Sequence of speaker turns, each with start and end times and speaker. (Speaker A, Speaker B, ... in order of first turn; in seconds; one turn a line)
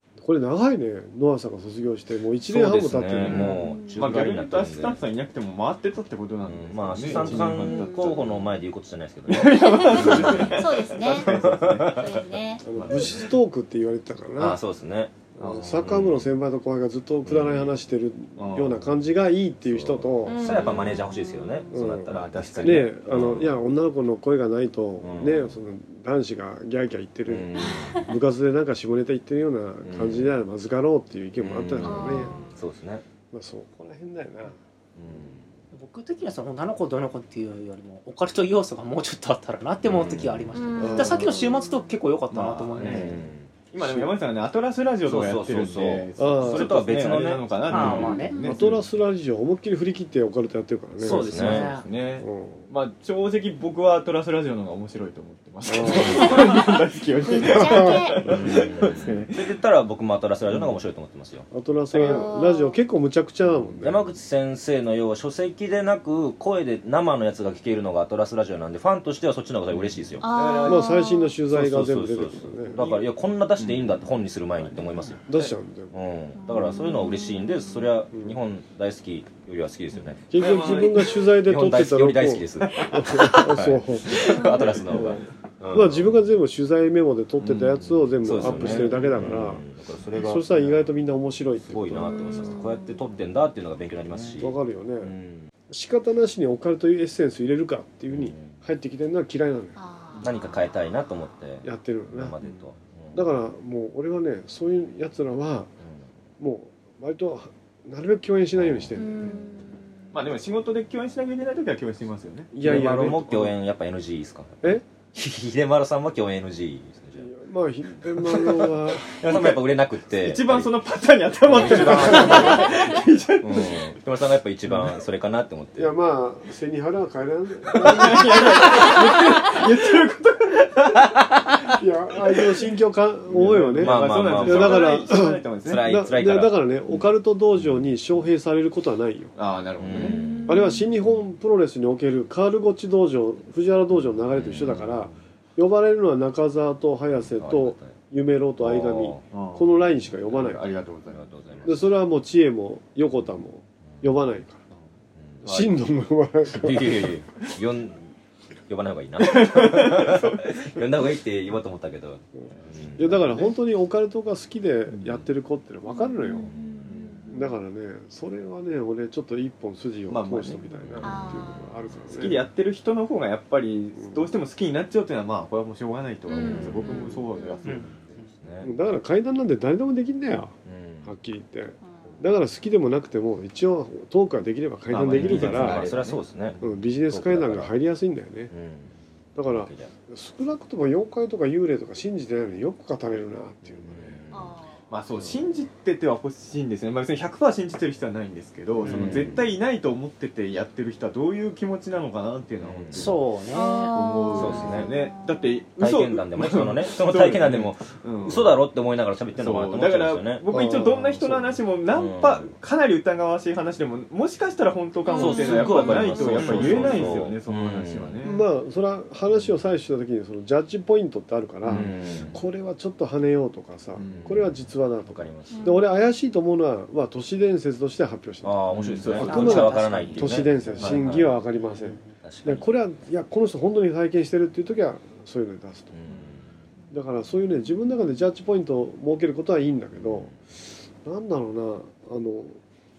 Speaker A: 0.2-3.5
Speaker B: 2.5-5.0
Speaker C: 3.2-8.5
Speaker D: 3.4-4.1
Speaker B: 6.5-12.2
Speaker D: 7.3-8.2
Speaker C: 9.3-12.1
Speaker D: 9.6-12.7
Speaker A: 12.7-14.6
Speaker C: 12.8-13.2
Speaker B: 14.4-15.2
Speaker A: 15.4-20.7
Speaker C: 15.4-15.9
Speaker B: 15.8-16.2
Speaker B: 17.3-17.7
Speaker C: 18.4-18.8
Speaker B: 19.7-23.6
Speaker D: 20.3-21.8
Speaker A: 21.7-32.4
Speaker C: 22.1-23.3
Speaker B: 25.0-25.5
Speaker B: 27.3-28.0
Speaker D: 27.6-28.0
Speaker B: 29.8-30.3
Speaker B: 31.4-33.0
Speaker D: 31.8-32.6
Speaker A: 33.3-34.6
Speaker B: 35.0-35.5
Speaker E: 35.7-43.2
Speaker B: 39.9-40.5
Speaker D: 40.5-42.0
Speaker A: 40.8-41.4
Speaker C: 42.3-43.2
Speaker B: 42.8-43.5
Speaker C: 43.7-48.8
Speaker A: 43.8-44.1
Speaker B: 45.0-48.2
Speaker A: 46.2-46.8
Speaker E: 47.7-48.4
Speaker D: 48.2-48.5
Speaker A: 48.4-51.6
Speaker E: 51.0-51.9
Speaker B: 51.1-51.7
Speaker C: 51.3-59.6
Speaker A: 52.2-52.7
Speaker A: 55.7-56.6
Speaker D: 57.4-58.2
Speaker A: 57.4-58.4
Speaker B: 58.2-61.5
Speaker A: 61.5-64.1
Speaker D: 61.9-62.8
Speaker B: 63.8-70.4
Speaker C: 69.7-70.8
Speaker D: 70.2-71.4
Speaker A: 70.6-72.8
Speaker B: 71.5-75.2
Speaker C: 73.6-74.0
Speaker A: 75.3-76.0
Speaker B: 75.9-80.3
Speaker D: 76.4-77.9
Speaker A: 78.1-78.4
Speaker A: 80.3-92.6
Speaker C: 80.3-81.1
Speaker B: 81.4-86.1
Speaker C: 84.6-85.2
Speaker B: 87.4-90.8
Speaker C: 88.4-89.3
Speaker B: 91.7-95.5
Speaker D: 92.3-93.0
Speaker A: 94.4-95.1
Speaker A: 95.7-99.8
Speaker B: 98.1-98.6
Speaker D: 99.8-101.2
Speaker B: 100.2-103.2
Speaker A: 101.6-102.4
Speaker A: 103.1-105.7
Speaker A: 106.4-109.4
Speaker B: 108.6-109.0
Speaker D: 109.0-110.1
Speaker C: 110.1-113.2
Speaker A: 112.5-113.5
Speaker B: 112.6-117.3
Speaker A: 117.2-119.0
Speaker B: 119.0-120.7
Speaker C: 119.2-123.9
Speaker B: 121.5-126.0
Speaker A: 121.6-122.7
Speaker A: 125.8-129.7
Speaker C: 127.8-131.7
Speaker A: 131.8-139.3
Speaker C: 133.3-135.8
Speaker B: 133.8-135.0
Speaker B: 135.6-136.5
Speaker C: 139.4-140.2
Speaker B: 139.8-140.7
Speaker D: 140.1-140.8
Speaker A: 140.5-150.7
Speaker B: 144.3-145.1
Speaker B: 147.4-147.9
Speaker B: 148.6-149.2
Speaker C: 149.3-149.7
Speaker C: 150.3-151.3
Speaker B: 151.1-151.9
Speaker A: 151.6-154.6
Speaker B: 155.2-155.7
Speaker A: 155.4-157.2
Speaker B: 156.5-158.1
Speaker B: 158.7-163.3
Speaker C: 159.2-160.8
Speaker A: 163.0-166.5
Speaker D: 165.9-167.5
Speaker B: 166.4-167.2
Speaker A: 167.3-172.4
Speaker C: 170.1-171.1
Speaker D: 171.0-171.8
Speaker C: 172.1-178.0
Speaker A: 174.0-174.3
Speaker D: 176.3-177.7
Speaker E: 177.6-178.3
Speaker B: 177.7-178.7
Speaker A: 178.6-185.9
Speaker B: 180.7-181.1
Speaker D: 181.8-182.2
Speaker C: 184.9-186.2
Speaker B: 184.9-187.7
Speaker A: 186.6-188.5
Speaker B: 188.5-188.9
Speaker A: 189.4-194.2
Speaker B: 189.5-189.9
Speaker B: 193.8-194.5
Speaker D: 194.3-194.8
Speaker C: 194.9-203.2
Speaker E: 198.8-199.2
Speaker B: 198.9-199.4
Speaker B: 202.6-203.2
Speaker E: 202.9-203.9
Speaker D: 203.5-205.7
Speaker C: 203.9-208.6
Speaker B: 204.3-204.9
Speaker B: 205.8-210.7
Speaker C: 209.4-218.4
Speaker A: 210.5-211.6
Speaker B: 211.9-212.5
Speaker B: 215.1-218.2
Speaker D: 215.1-215.6
Speaker E: 216.3-216.9
Speaker A: 218.2-236.0
Speaker C: 221.7-222.4
Speaker B: 221.7-222.4
Speaker C: 223.9-224.4
Speaker B: 224.0-225.7
Speaker D: 225.5-225.9
Speaker B: 228.4-231.4
Speaker C: 228.7-229.7
Speaker E: 229.2-230.3
Speaker B: 232.2-232.7
Speaker B: 235.9-236.4
Speaker A: 236.9-240.3
Speaker B: 240.0-240.3
Speaker A: 241.0-242.6